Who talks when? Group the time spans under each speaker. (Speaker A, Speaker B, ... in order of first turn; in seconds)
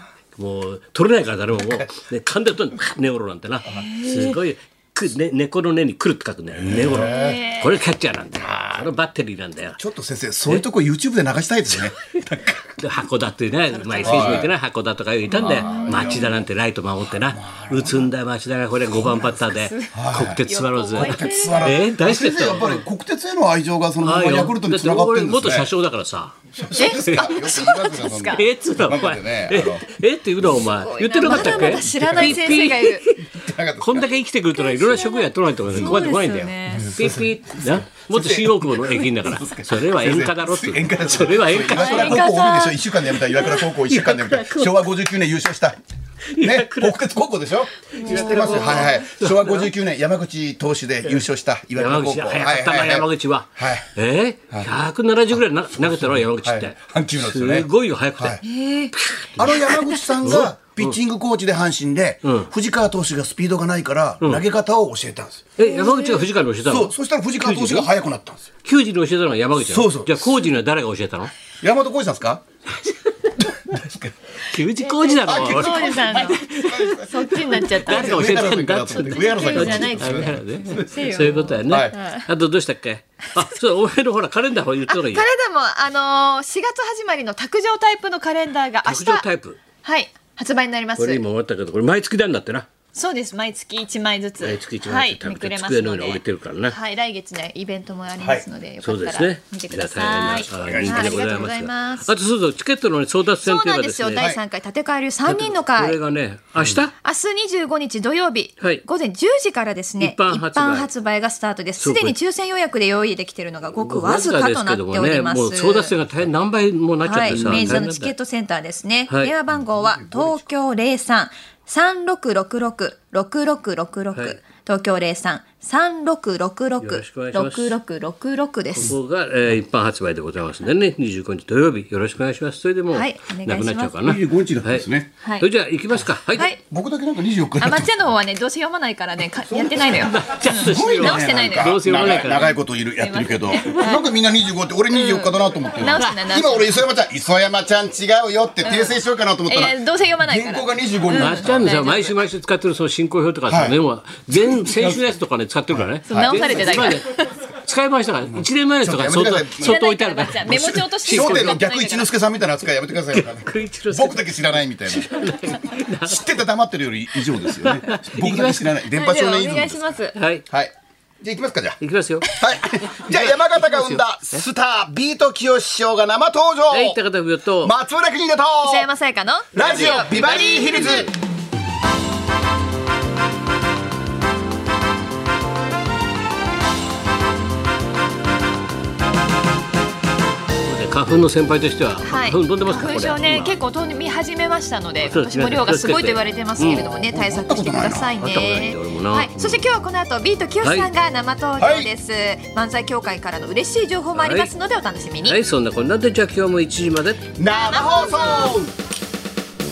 Speaker A: 0.3-9.8, 12.8-22.8, 24.0-26.4, 28.3-42.3, 43.5-44.7, 46.3-47.0, 47.9-49.7, 51.8-58.4, 58.9-59.6, 60.2-61.0, 65.6-67.9, 68.6-71.3, 72.8-73.8, 74.4-85.3, 88.8-89.6, 91.0-92.7, 94.4-96.8, 98.8-104.3, 105.2-106.9, 110.0-110.9, 111.8-112.1, 113.8-118.1, 119.1-119.3, 126.8-127.8, 128.7-134.9, 135.4-136.5, 139.9-142.5, 151.1-157.0, 157.6-161.6, 163.1-166.2, 167.4-168.7, 170.1-170.4, 171.8-172.3, 173.0-174.4, 176.7-177.7, 179.6-180.1, 190.6-193.6, 195.0-196.8, 198.2-199.7, 200.6-200.9, 204.1-204.5, 205.2-207.3
Speaker B: 1.6-1.9, 6.6-7.4, 8.3-8.9, 9.8-12.8, 14.0-14.5, 15.3-16.4, 17.1-18.1, 18.9-20.4, 21.0-25.7, 26.5-29.8, 31.2-32.7, 33.3-34.1, 35.7-36.0, 36.7-45.8, 46.4-53.9, 55.8-58.4, 59.4-65.5, 66.7-68.5, 69.6-70.4, 71.6-72.4, 73.7-74.1, 75.2-82.0, 98.2-98.4, 100.5-101.4, 117.3-117.7, 119.7-120.3, 134.0-135.1, 136.6-137.9, 139.5-151.6, 153.5-153.8, 154.3-155.1, 155.7-157.0, 158.2-159.8, 160.4-169.9, 170.5-177.0, 177.6-178.9, 179.5-181.2, 196.9-198.2, 201.6-201.9, 207.4-208.7
Speaker C: 3.7-4.4, 6.9-7.8, 13.8-14.4, 15.3-16.3, 19.4-21.7, 26.7-28.4, 30.5-33.1, 34.5-36.9, 41.6-43.7, 48.0-48.9, 58.4-60.4, 65.6-66.2, 74.8-82.3, 84.9-89.2, 89.8-91.2, 92.9-102.1, 103.4-106.0, 107.0-115.9, 117.0-128.9, 132.9-134.0, 135.2-135.5, 136.3-136.6, 137.6-144.1, 144.9-146.8, 148.6-152.2, 156.1-157.3, 159.6-162.1, 168.9-170.2, 178.6-181.1, 192.0-205.4, 207.4-208.6